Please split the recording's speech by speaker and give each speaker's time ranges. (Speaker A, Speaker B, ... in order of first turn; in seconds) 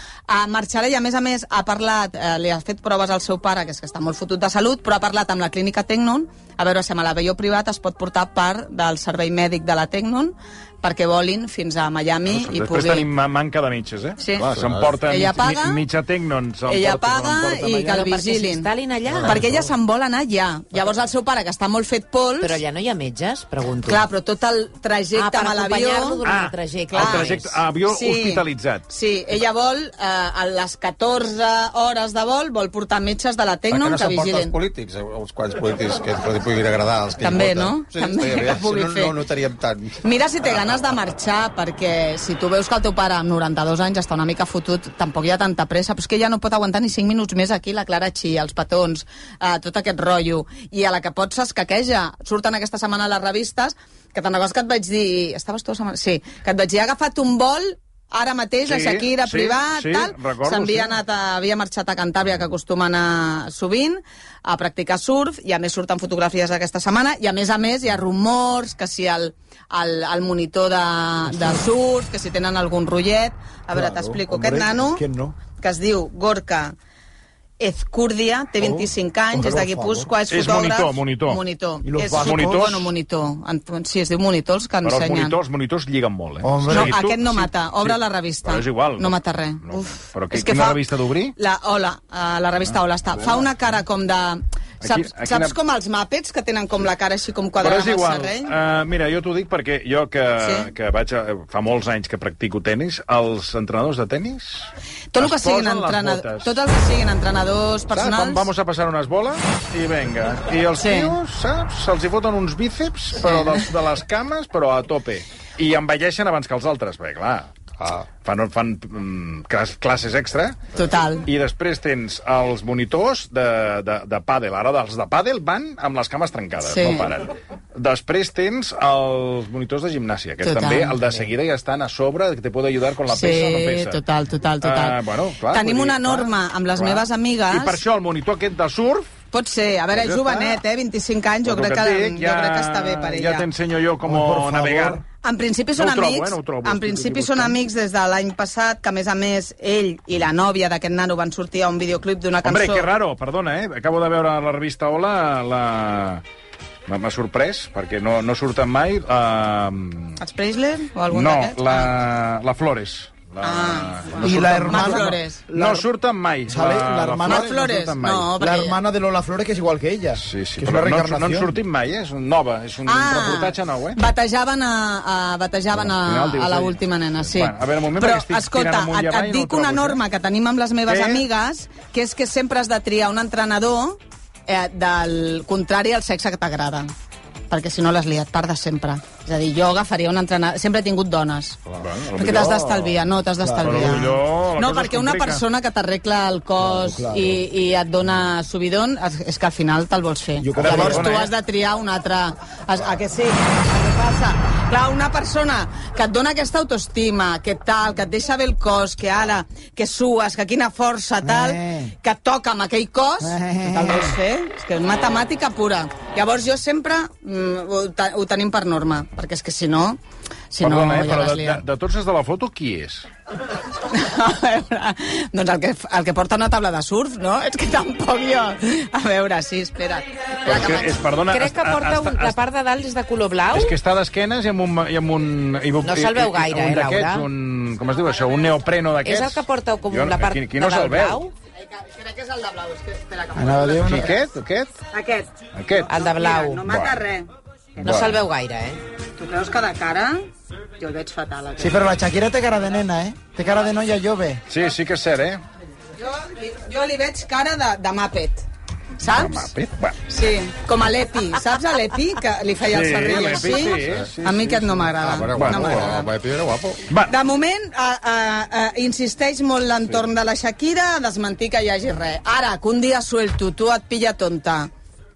Speaker A: 0.3-13.1, 14.2-14.4, 15.1-15.8, 16.7-18.7, 19.2-22.6, 23.8-26.2, 26.9-27.3, 27.9-34.5, 37.2-39.2, 40.0-75.0, 75.6-76.8, 77.6-85.3, 86.7-90.8, 91.3-98.5, 100.4-100.7, 105.1-108.5, 110.8-111.2, 120.8-121.3, 126.7-127.1, 130.4-131.0, 133.1-135.0, 135.5-137.8, 139.3-143.5, 145.2-152.9, 160.2-161.9, 163.4-165.5, 167.3-168.8, 172.9-186.9, 187.5-191.6, 192.2-220.0, 220.5-221.6, 223.9-230.9, 241.7-244.1, 244.9-245.3, 245.9-247.3, 249.2-250.2, 250.8-251.8, 256.0-258.4, 259.0-259.5, 260.1-266.1, 267.1-274.7
Speaker B: 12.3-18.0, 26.2-28.8, 58.7-61.0, 80.3-81.4, 82.2-82.9, 84.8-91.3, 93.2-93.4, 94.8-95.6, 97.6-106.5, 107.9-117.5, 118.2-120.6, 121.3-134.0, 134.6-139.1, 139.9-140.6, 141.4-145.0, 145.8-147.6, 152.4-156.2, 156.9-160.2, 161.1-168.3, 170.2-174.0, 175.8-180.0, 180.9-181.2, 191.8-193.1, 193.6-195.4, 200.6-201.3, 220.6-223.1, 230.4-232.3, 233.5-241.2, 243.8-244.7, 245.5-245.9, 246.7-247.0, 247.8-248.2, 254.5-255.4, 259.1-260.0, 262.6-265.9, 266.9-267.1
Speaker C: 14.5-14.9, 19.1-19.6, 33.7-40.0, 117.8-118.1, 263.8-264.1, 265.0-266.8
Speaker D: 17.8-19.4, 22.4-24.1, 25.1-27.6, 231.3-233.7, 235.8-237.3, 239.0-241.3, 245.9-246.6, 247.8-248.8
Speaker E: 73.7-75.3, 78.6-80.1, 81.8-82.7, 86.4-87.0, 144.1-145.0, 164.2-165.8, 166.5-167.5, 168.4-171.6, 193.4-194.1, 196.6-197.4, 200.4-201.1, 211.2-211.9, 213.2-214.2, 243.3-244.2, 251.6-254.4